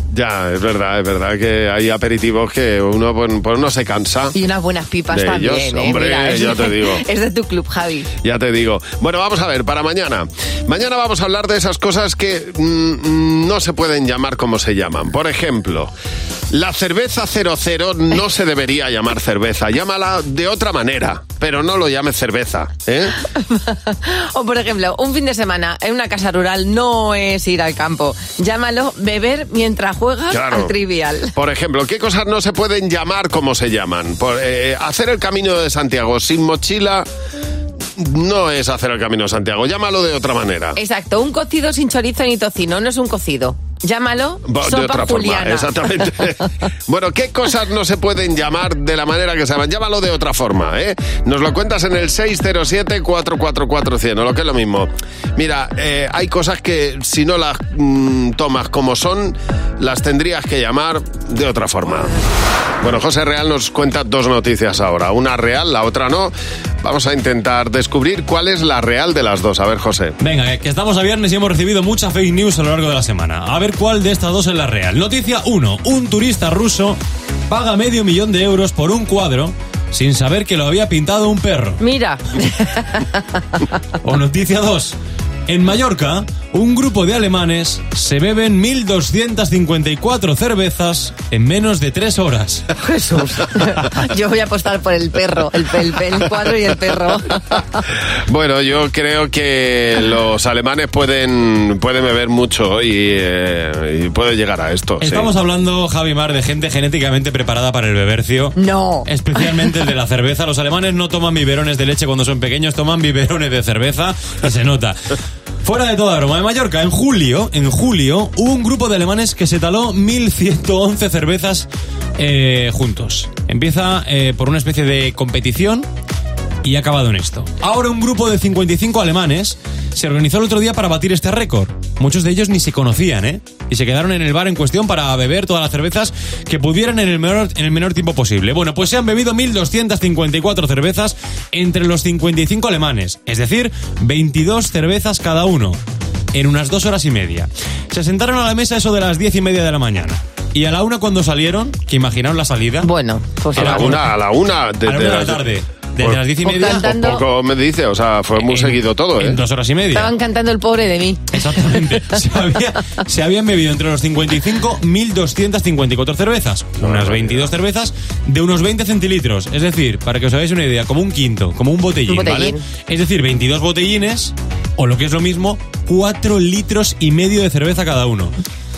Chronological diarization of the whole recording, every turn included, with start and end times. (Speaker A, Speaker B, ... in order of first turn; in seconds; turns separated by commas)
Speaker A: 0.1-4.3, Speaker B: 4.3-8.1, Speaker A: 5.1-7.0, Speaker A: 8.2-15.9, Speaker A: 16.5-23.1, Speaker B: 23.3-31.3, Speaker A: 30.3-30.7, Speaker A: 31.3-37.0, Speaker A: 38.0-40.8, Speaker B: 40.8-45.7, Speaker A: 44.5-62.1, Speaker A: 62.8-70.2, Speaker C: 70.2-77.0, Speaker C: 77.5-81.8, Speaker B: 81.8-83.2, Speaker C: 84.0-85.0, Speaker C: 85.5-92.7, Speaker B: 92.8-97.8, Speaker A: 98.3-105.3, Speaker C: 105.0-115.1, Speaker B: 108.5-109.4, Speaker C: 115.6-121.7, Speaker C: 122.2-125.9, Speaker C: 126.6-145.8, Speaker C: 146.3-152.9, Speaker B: 152.8-154.0, Speaker C: 153.5-154.2, Speaker A: 153.6-155.4, Speaker C: 154.8-156.9, Speaker A: 156.0-159.4, Speaker B: 156.4-157.2, Speaker C: 158.4-160.1, Speaker B: 159.9-161.6, Speaker C: 161.3-178.3, Speaker A: 166.8-167.5, Speaker B: 172.1-172.6